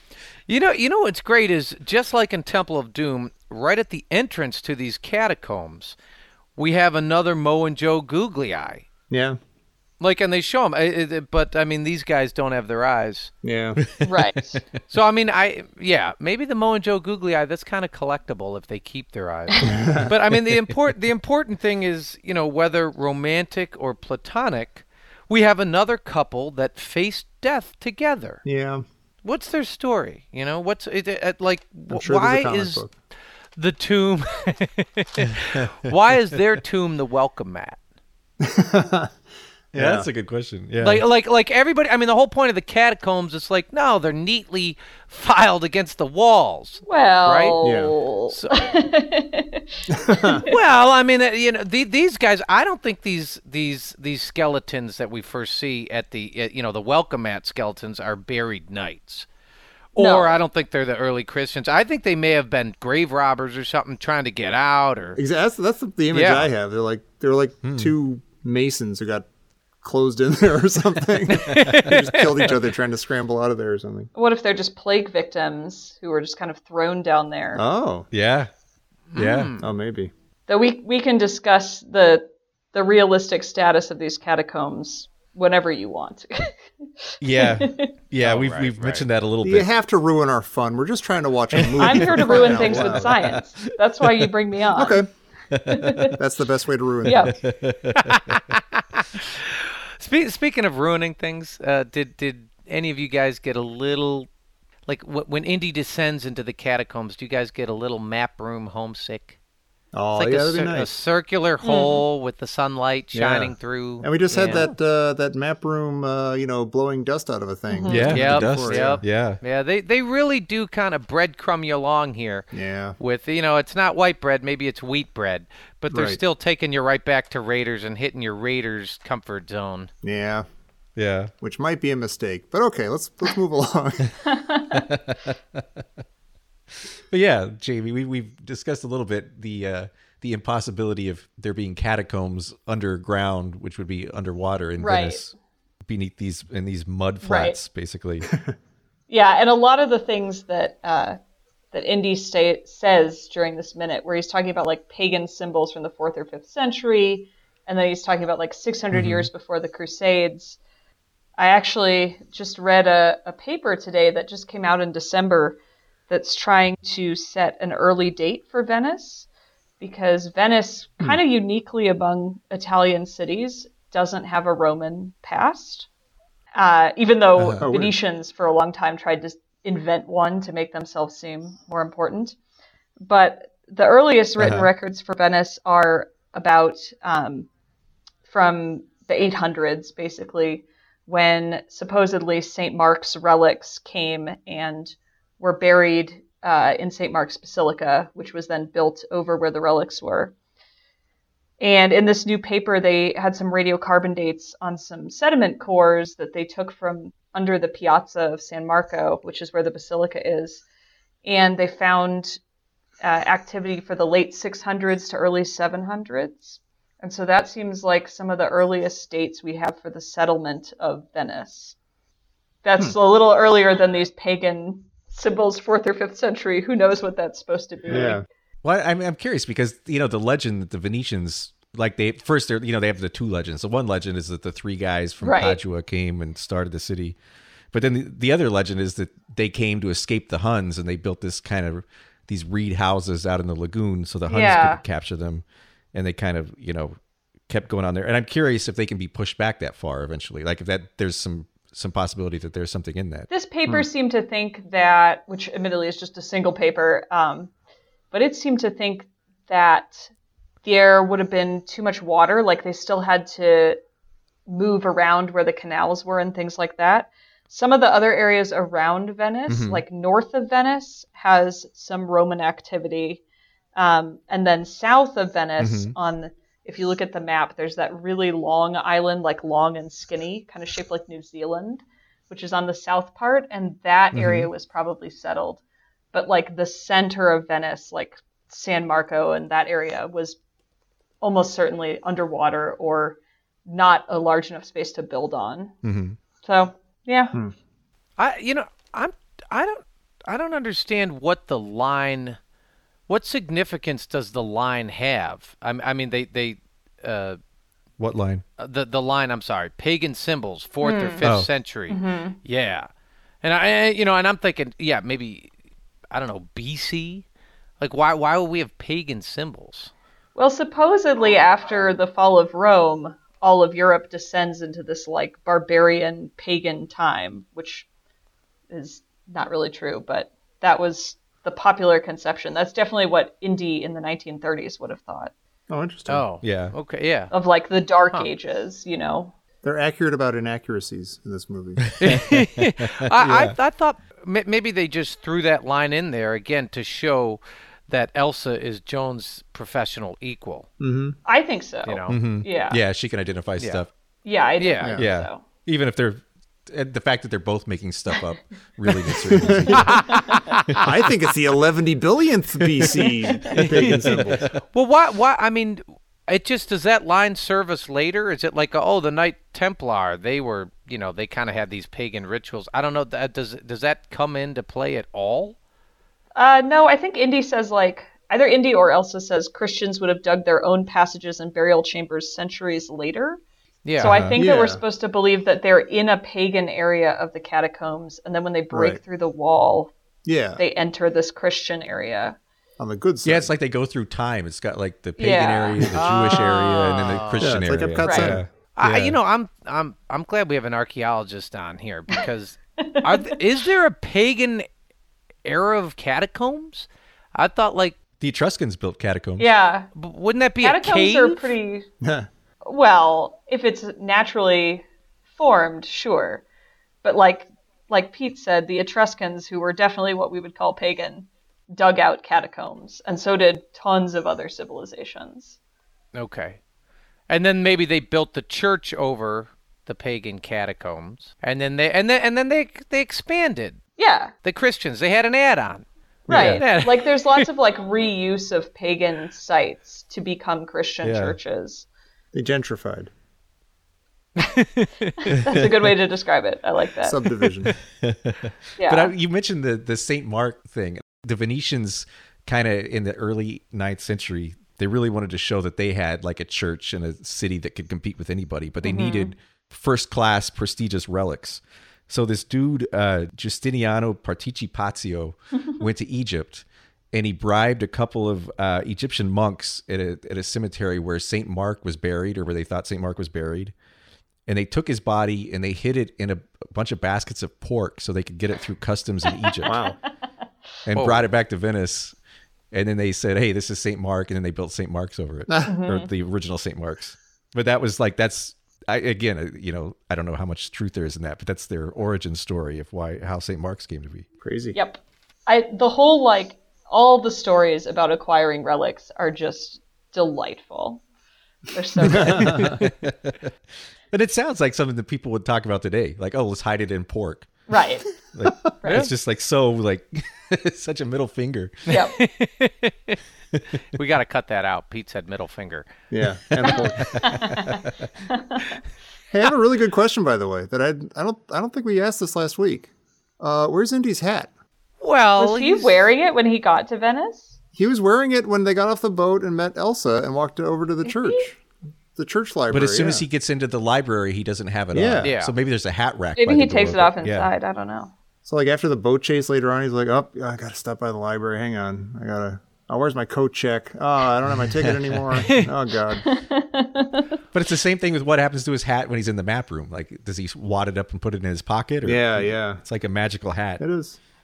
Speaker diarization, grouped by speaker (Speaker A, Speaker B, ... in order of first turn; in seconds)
Speaker A: 0.5-6.0, 6.6-8.8, 10.0-13.3, 14.9-28.4, 29.2-32.9, 33.5-37.8, 40.8-47.6, 48.3-48.7, 50.4-59.3, 59.9-65.2, 66.1-66.5, 71.3-72.6, 79.1-79.7, 88.2-89.1, 98.0-104.3, 104.9-109.4, 110.2-114.7, 118.1-122.5, 123.0-129.9, 298.2-302.4, 303.1-307.4, 308.6-312.9, 313.4-315.5, 316.1-317.2, 317.8-319.9, 336.1-337.3, 342.0-350.7, 351.9-352.2, 354.6-354.9, 359.7-360.8, 363.5-375.6, 383.8-384.2, 395.9-397.5, 398.7-404.7, 405.4-408.0, 409.9-411.5, 426.1-426.6, 427.3-433.8, 434.4-437.4, 444.4-445.2, 480.9-481.2, 511.9-513.2, 513.9-515.9, 525.0-526.0, 535.2-535.5, 545.4-545.7
Speaker B: 9.1-9.4, 13.4-13.8, 19.6-20.1, 28.4-28.8, 31.9-32.9, 38.4-39.1, 39.7-40.1, 47.6-47.9, 49.9-50.4, 65.2-69.2, 69.8-74.1, 77.5-78.1, 79.6-80.1, 89.4-93.2, 94.7-95.1, 96.2-97.4, 109.9-110.9, 113.1-119.0, 122.5-123.0, 125.9-126.2, 130.0-130.4, 131.4-134.2, 148.3-148.5, 177.6-177.9, 227.9-228.2, 335.7-336.2, 339.6-341.8, 350.8-351.2, 354.8-355.1, 359.4-360.0, 360.8-364.4, 384.3-384.8, 388.7-389.0, 390.2-390.6, 392.8-393.5, 397.4-398.4, 412.0-412.3, 436.3-436.6, 442.3-443.1, 447.0-447.7, 479.6-480.0, 485.5-485.7, 494.4-494.8, 502.0-502.8, 516.1-517.2, 519.3-524.5, 527.7-531.6, 532.1-533.2, 534.9-535.3, 538.4-546.2, 552.0-552.8, 553.8-554.2
Speaker C: 13.9-14.3, 35.3-35.7, 39.7-41.0, 67.6-67.9, 71.5-72.0, 78.1-78.5, 79.1-79.5, 87.2-89.7, 91.9-94.2, 95.5-96.1, 97.2-98.4, 117.9-119.4, 130.9-131.3, 134.7-135.8, 137.1-145.3, 145.8-148.3, 158.9-159.2, 177.4-177.7, 184.4-184.7, 228.6-237.2, 237.7-246.9, 247.5-253.3, 269.5-269.8, 275.6-275.9, 284.1-284.5, 295.8-296.2, 308.0-308.4, 311.2-311.5, 336.4-336.7, 342.0-343.5, 352.1-353.9, 354.9-360.8, 363.5-364.4, 384.0-384.3, 393.2-399.2, 408.2-409.5, 436.3-436.6, 441.0-441.4, 445.3-445.8, 447.9-473.7, 474.5-479.8, 480.9-482.1, 482.7-494.3, 502.3-503.5, 504.1-507.6, 508.3-511.9, 516.5-517.9, 532.7-537.5, 544.5-545.5, 547.5-553.8
Speaker D: 14.0-14.6, 46.9-50.5, 60.0-60.4, 74.1-77.6, 80.5-87.9, 91.8-95.0, 95.7-96.2, 97.0-97.4, 111.6-112.0, 117.7-118.1, 134.3-134.8, 144.8-145.2, 147.2-147.6, 149.1-151.2, 151.7-160.6, 161.4-165.6, 166.1-169.3, 169.8-175.9, 176.5-182.4, 183.0-187.5, 188.3-200.3, 201.6-210.6, 211.2-212.4, 213.0-221.8, 222.6-228.2, 235.2-235.6, 244.3-244.8, 253.3-257.5, 258.1-260.1, 260.6-263.8, 264.4-273.2, 273.7-285.6, 286.1-290.4, 291.2-295.8, 296.4-297.3, 310.8-311.2, 311.9-312.4, 320.4-327.9, 328.7-335.3, 337.3-339.3, 351.2-352.8, 354.2-355.4, 360.1-360.5, 376.4-383.4, 384.0-389.9, 390.6-392.4, 395.2-397.0, 398.0-398.4, 402.8-403.4, 409.4-409.9, 410.6-411.9, 412.6-416.4, 417.0-425.6, 434.0-434.3, 436.3-441.9, 445.2-447.2, 448.8-449.1, 458.8-459.3, 479.4-479.9, 485.6-486.1, 494.7-501.0, 501.7-502.6, 507.7-508.1, 508.8-509.1, 511.9-512.1, 516.7-518.8, 525.4-527.5, 536.4-538.1, 546.2-547.3